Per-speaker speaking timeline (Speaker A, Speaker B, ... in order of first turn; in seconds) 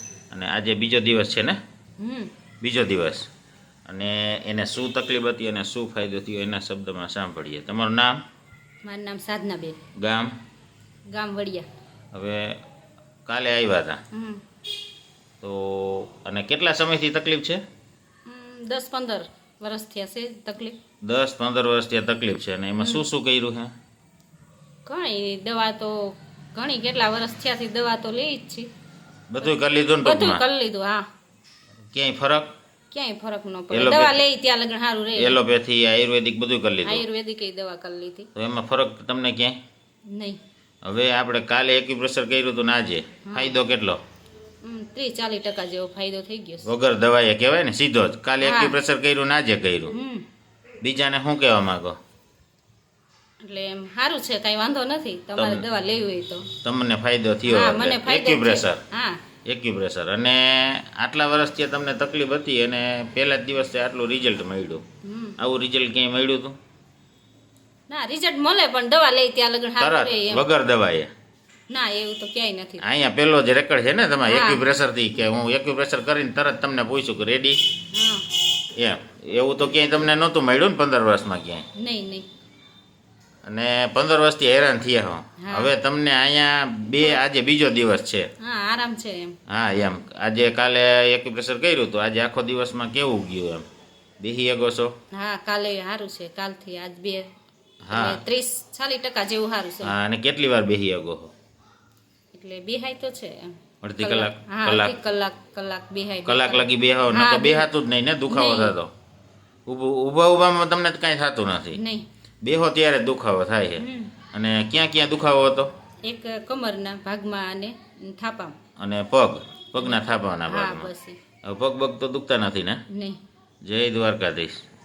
Speaker A: 0.3-1.6, 2.6-3.3, 3.9-8.2, 10.0-10.3, 12.1-12.6, 13.2-14.0, 15.4-17.6, 21.0-23.7, 29.3-30.4, 31.9-32.5, 33.7-34.2, 35.1-37.0, 38.3-39.6, 40.8-44.0, 46.6-50.0, 50.8-52.0, 55.4-55.6, 56.6-58.8, 59.5-64.8, 65.4-66.6, 69.8-71.1, 72.8-77.6, 78.8-81.7, 83.5-88.3, 89.5-93.6, 94.2-94.9, 97.8-98.2, 99.8-101.3, 103.8-104.9, 106.2-108.9, 109.7-111.8, 112.4-115.7, 118.8-120.9, 121.4-122.8, 123.6-124.6
Speaker B: 2.0-2.3, 8.8-9.8, 11.1-11.7, 14.1-14.4, 18.2-20.8, 22.8-23.0, 24.9-28.7, 30.0-31.1, 32.9-35.4, 36.8-38.3, 40.1-40.4, 43.2-43.6, 44.6-46.7, 48.4-48.8, 49.9-50.2, 53.4-56.5, 57.5-59.2, 65.0-65.4, 67.9-70.5, 71.7-72.8, 74.3-74.6, 77.9-78.2, 81.8-82.3, 85.4-85.7, 88.4-89.4, 95.1-97.3, 97.9-99.9, 102.3-107.7, 108.3-108.8, 111.7-112.0, 113.8-114.1, 116.0-118.5, 119.8-121.2, 122.9-123.2